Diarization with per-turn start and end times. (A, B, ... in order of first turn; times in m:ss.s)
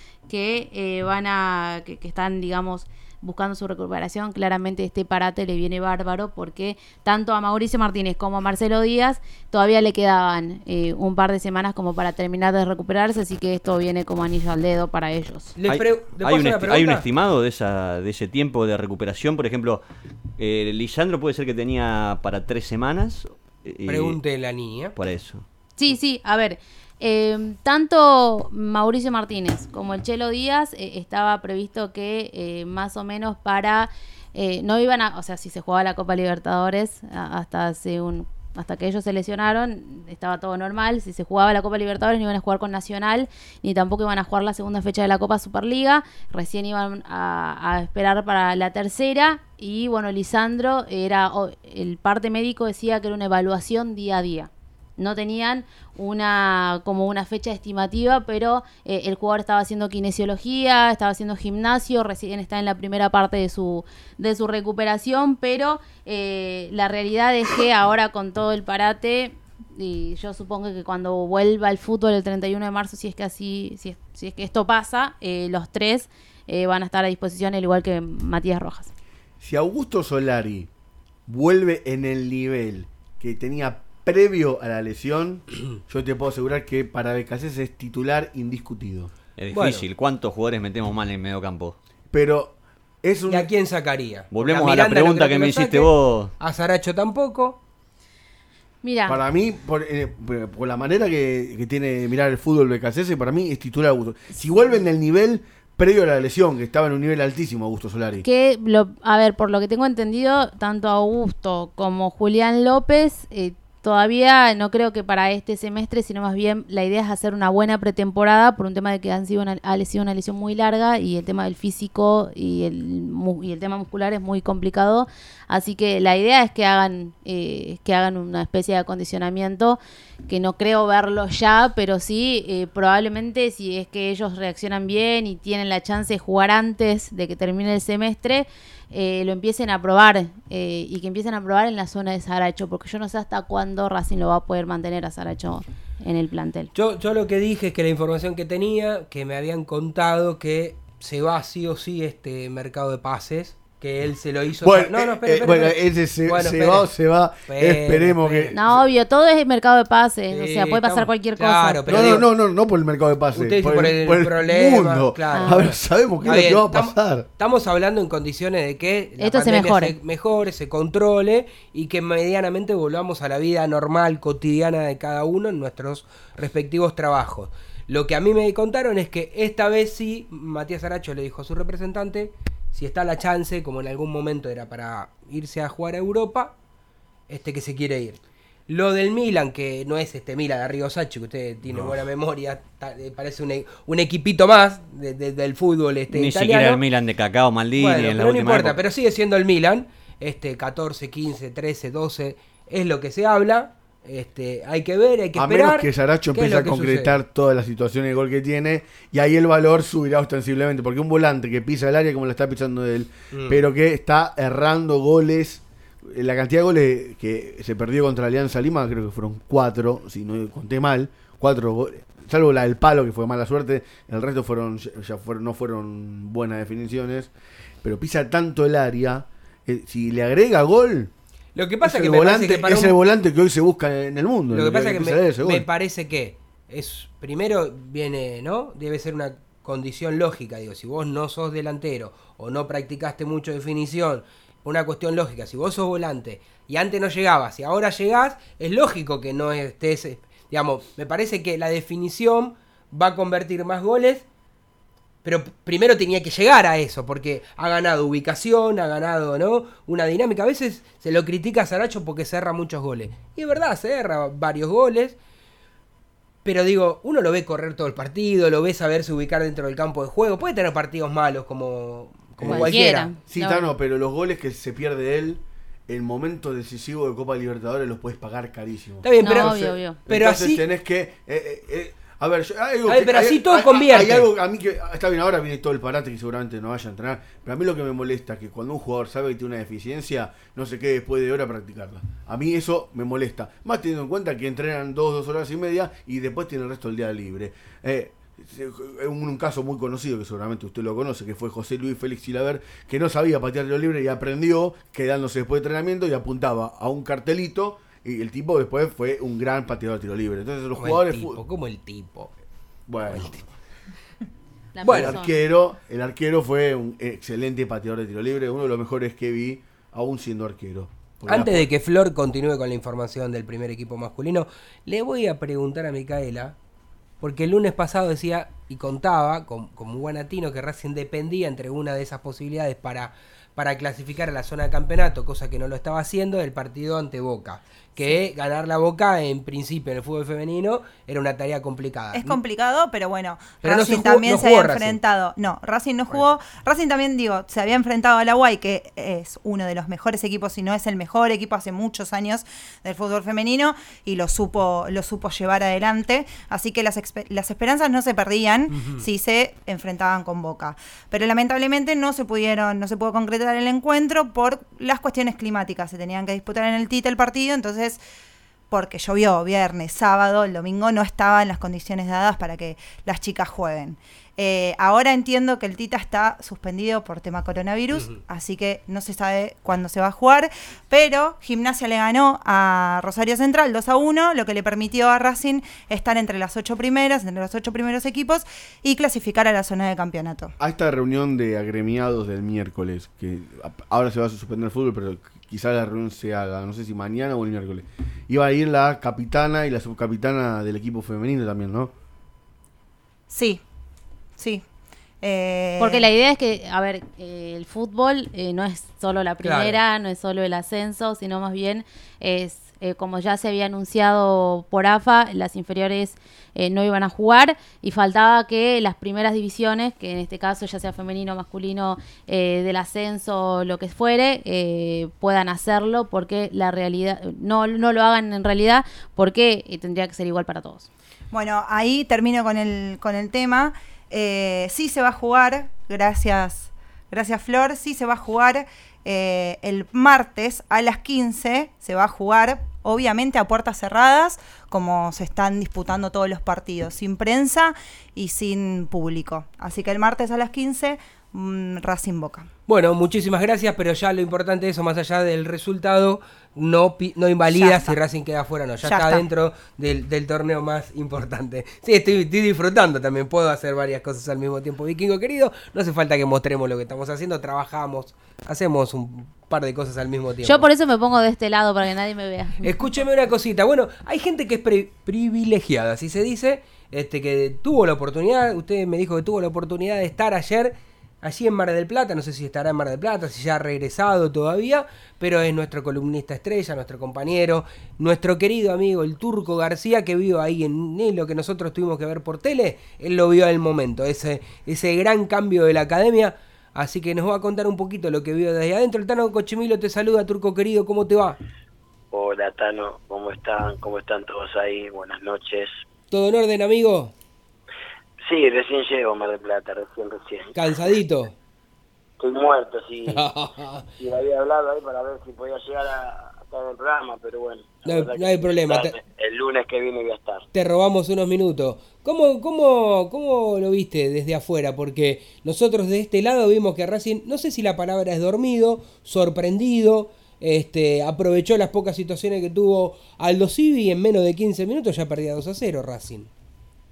0:00.3-0:15.5 A
0:15.6-0:17.1 B
0:15.7-0:19.8 C
0:20.4-0:24.2 C
0:23.8-0:24.9 B
0:25.0-0:25.4 C
0:25.8-1:18.9 A
1:19.4-1:20.7 D
1:21.3-1:29.1 D
1:29.4-1:31.8 C
1:29.5-1:29.8 B
1:32.1-1:33.5 D
1:33.3-1:37.6 B
1:34.3-1:36.3 C
1:38.8-1:39.2 A
1:39.1-1:48.2 D
1:48.2-2:26.7 A
2:26.7-2:36.9 B
2:34.6-2:38.8 D
2:37.4-2:38.6 B
2:38.5-2:42.2 A
2:40.3-2:42.3 B
2:41.9-2:47.2 D
2:43.3-3:06.5 B
2:45.3-2:45.6 A
2:49.2-2:50.0 A
3:07.3-3:16.8 B
3:16.1-3:18.8 C
3:17.8-3:27.2 B
3:25.3-3:47.3 D
3:33.3-3:33.6 B
3:47.8-3:51.1 D
3:51.5-3:53.0 B
3:51.8-3:55.6 D
3:54.5-4:14.2 B
4:15.2-4:25.2 B
4:26.4-4:33.1 B
4:32.4-5:11.4 D
4:32.5-4:33.6 A
4:39.0-4:40.6 B
4:39.2-4:40.0 A
4:42.9-4:44.3 B
5:10.7-5:12.3 B
5:12.9-5:13.4 D
5:13.1-5:13.4 B
5:14.7-5:15.3 A
5:14.8-5:15.2 B
5:14.8-5:21.7 D
5:21.2-5:26.6 B
5:27.2-5:42.4 B
5:42.1-6:08.0 E
5:43.6-5:45.0 B
6:08.7-6:30.5 E
6:30.6-6:41.9 D
6:43.3-6:43.6 E
6:44.4-6:44.6 E
6:45.2-6:46.1 E
6:45.8-7:10.9 A
6:49.4-6:49.8 B
7:11.3-7:32.5 E
7:32.7-7:50.7 B
7:37.5-7:38.0 E
7:38.8-7:39.3 E
7:50.4-7:52.8 A
7:52.6-8:21.4 B
8:22.1-8:25.7 F
8:26.1-8:27.1 B
8:28.2-8:30.5 F
8:30.5-8:31.3 B
8:32.2-8:33.2 F
8:33.1-8:33.8 B
8:34.0-8:40.4 F
8:37.8-8:39.0 B
8:40.5-8:56.3 B